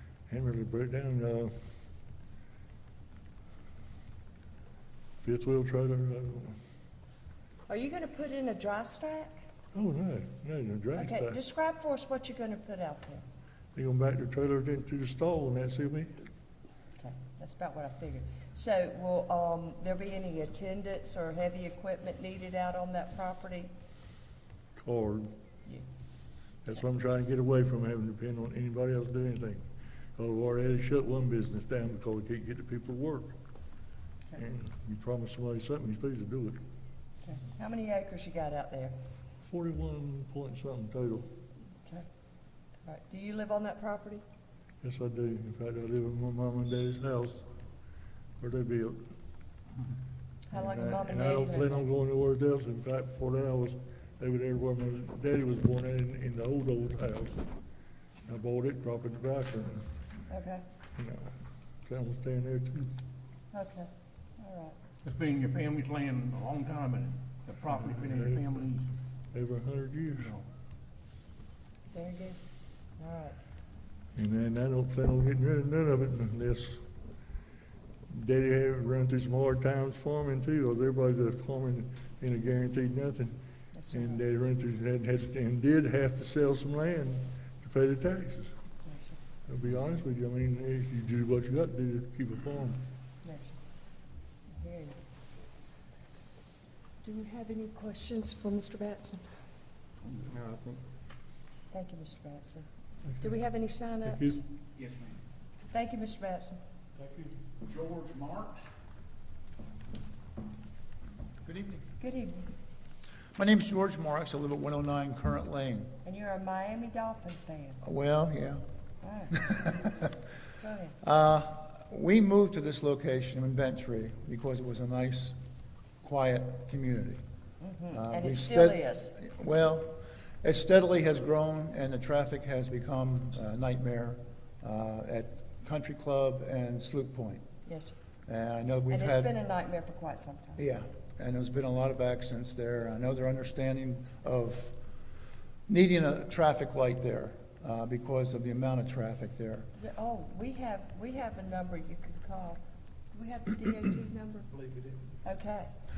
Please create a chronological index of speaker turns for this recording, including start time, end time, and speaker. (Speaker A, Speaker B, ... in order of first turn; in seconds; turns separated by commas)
Speaker A: 0.3-1.5, Speaker A: 5.2-6.6, Speaker B: 7.7-9.4, Speaker A: 9.7-11.4, Speaker B: 10.9-13.2, Speaker A: 13.8-16.3, Speaker B: 17.0-23.7, Speaker A: 24.8-25.3, Speaker A: 26.6-29.6, Speaker A: 30.2-33.4, Speaker A: 34.4-36.6, Speaker B: 37.2-39.0, Speaker A: 39.4-41.3, Speaker B: 42.9-44.2, Speaker A: 44.8-47.4, Speaker A: 48.4-49.1, Speaker B: 50.5-51.9, Speaker A: 50.5-57.4, Speaker A: 58.2-59.9, Speaker B: 60.3-60.6, Speaker A: 61.0-61.3, Speaker A: 61.9-62.9, Speaker B: 63.5-64.8, Speaker C: 65.1-68.8, Speaker A: 67.8-68.4, Speaker A: 69.3-70.3, Speaker B: 71.9-72.4, Speaker B: 73.0-73.4, Speaker A: 74.2-76.8, Speaker A: 78.1-83.4, Speaker B: 83.7-84.2, Speaker A: 83.9-88.5, Speaker B: 88.8-89.2, Speaker A: 89.5-92.8, Speaker B: 93.2-93.6, Speaker B: 94.5-95.0, Speaker B: 97.0-99.2, Speaker B: 101.7-102.7, Speaker B: 103.2-104.4, Speaker A: 104.0-104.4, Speaker B: 105.7-106.6, Speaker D: 111.4-111.8, Speaker B: 112.0-112.5, Speaker D: 113.3-115.9, Speaker B: 116.0-117.8, Speaker D: 117.8-118.6, Speaker B: 119.0-119.4, Speaker D: 119.3-120.2, Speaker B: 120.6-121.0, Speaker D: 121.0-125.3, Speaker D: 126.0-127.2, Speaker B: 127.6-129.2, Speaker D: 127.9-137.4, Speaker B: 137.7-137.9, Speaker D: 138.3-139.3, Speaker B: 138.9-140.6, Speaker D: 140.6-144.8, Speaker D: 145.7-149.7, Speaker B: 149.8-152.6, Speaker B: 153.1-154.6, Speaker B: 155.2-155.7